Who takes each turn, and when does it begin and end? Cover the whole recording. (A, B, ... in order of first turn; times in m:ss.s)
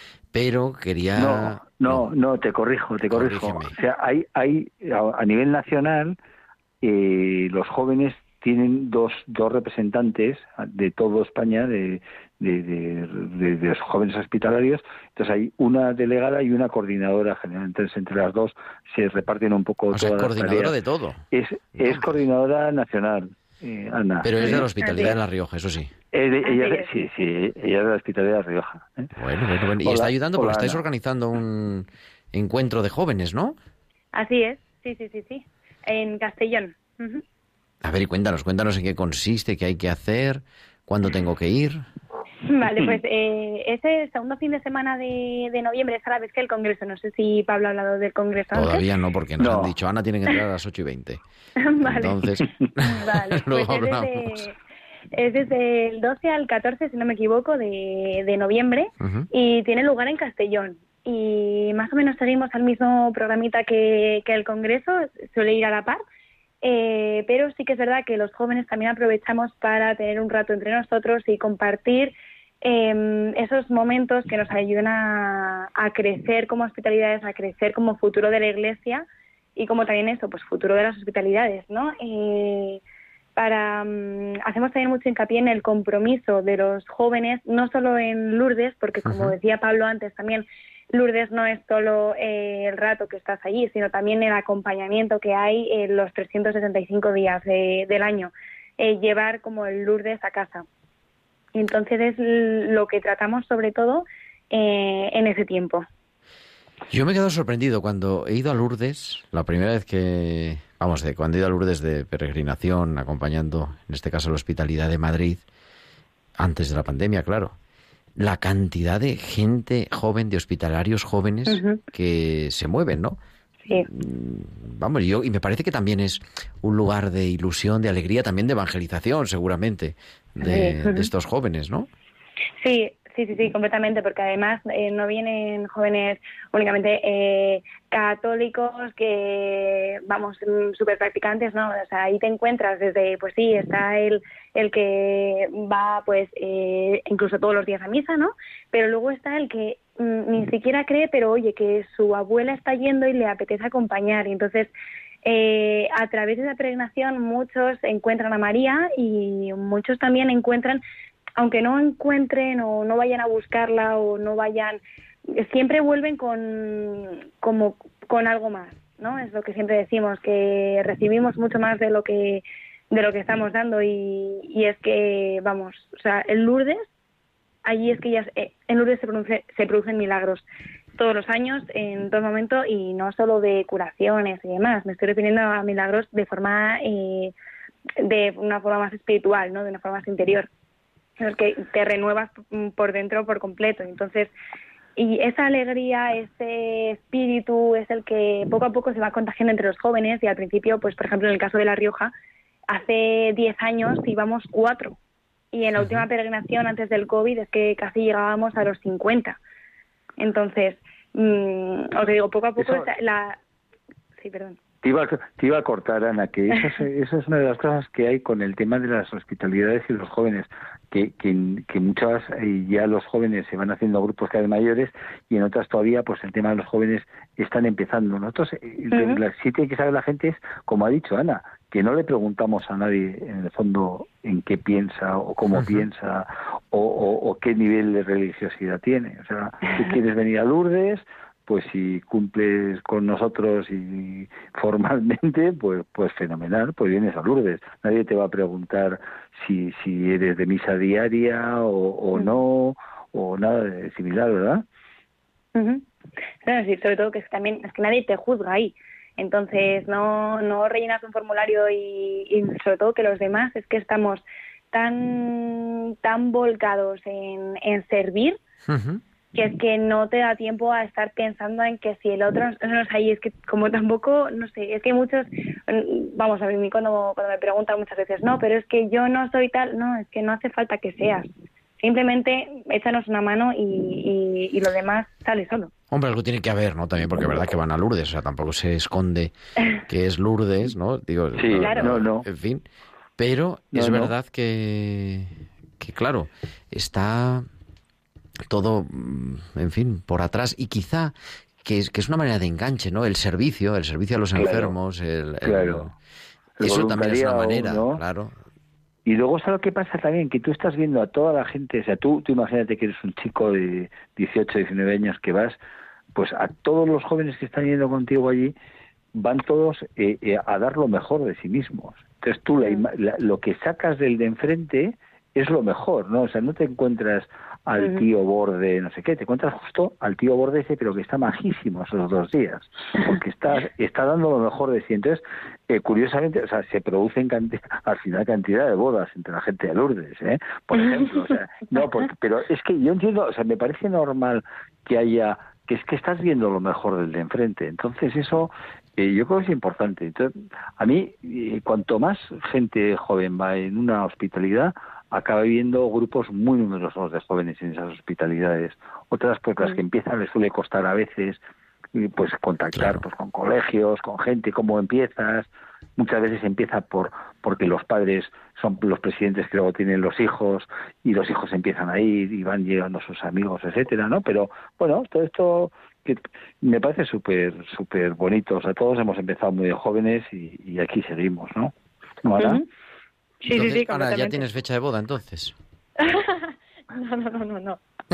0:00.3-0:02.1 A
0:01.2-0:06.2 B
0:03.1-0:03.8 A
0:06.8-0:20.7 B
0:19.9-0:21.2 A
0:21.3-0:24.6 B
0:24.2-0:25.9 A
0:24.4-0:25.1 C
0:26.1-0:29.1 B
0:26.4-0:26.9 C
0:29.2-0:33.6 A
0:29.8-0:30.8 B
0:34.2-0:37.2 C
0:37.8-0:41.8 A
0:42.5-0:48.8 C
0:48.5-0:51.2 A
0:49.4-0:49.7 B
0:51.6-0:52.2 C
0:51.8-0:54.4 A
0:52.8-0:54.6 C
0:55.2-1:06.0 C
0:59.0-0:59.3 A
1:06.6-1:19.0 C
1:19.6-1:22.8 C
1:23.4-1:40.7 C
1:29.0-1:29.3 A
1:41.6-1:45.8 C
1:46.9-1:55.4 A
1:56.4-1:57.6 A
1:58.2-2:03.2 A
2:01.5-2:01.8 C
2:03.8-2:11.9 A
2:10.4-2:11.1 C
2:12.6-2:34.7 C
2:35.2-2:40.8 C
2:41.4-2:56.8 C
2:57.6-3:00.4 C
3:01.0-3:07.3 C
3:08.0-3:10.5 C
3:11.2-3:14.3 C
3:15.0-3:22.1 C
3:22.7-3:25.0 C
3:25.5-3:29.4 C
3:30.2-3:33.4 C
3:32.6-3:32.9 B
3:34.2-3:34.6 C
3:34.8-4:14.6 B
3:48.9-3:49.2 C
4:15.6-4:15.8 C
4:16.4-4:28.4 C
4:28.7-4:29.0 A
4:29.3-4:41.3 C
4:41.8-4:45.7 C
4:45.9-4:49.3 A
4:49.9-4:52.6 A
4:51.4-4:52.3 B
4:51.5-4:51.9 C
4:53.2-4:57.5 A
4:53.7-4:54.1 B
4:58.5-5:05.9 A
5:04.4-5:04.7 B
5:05.4-5:05.9 B
5:06.6-5:08.0 B
5:06.6-5:08.3 A
5:09.1-5:15.6 B
5:16.2-5:18.5 B
5:19.2-6:01.4 B
5:27.8-5:28.1 C
6:02.0-6:21.7 B
6:02.8-6:03.0 A
6:22.2-6:22.6 B
6:23.4-6:24.4 C
6:23.5-6:25.6 A
6:26.0-6:27.8 C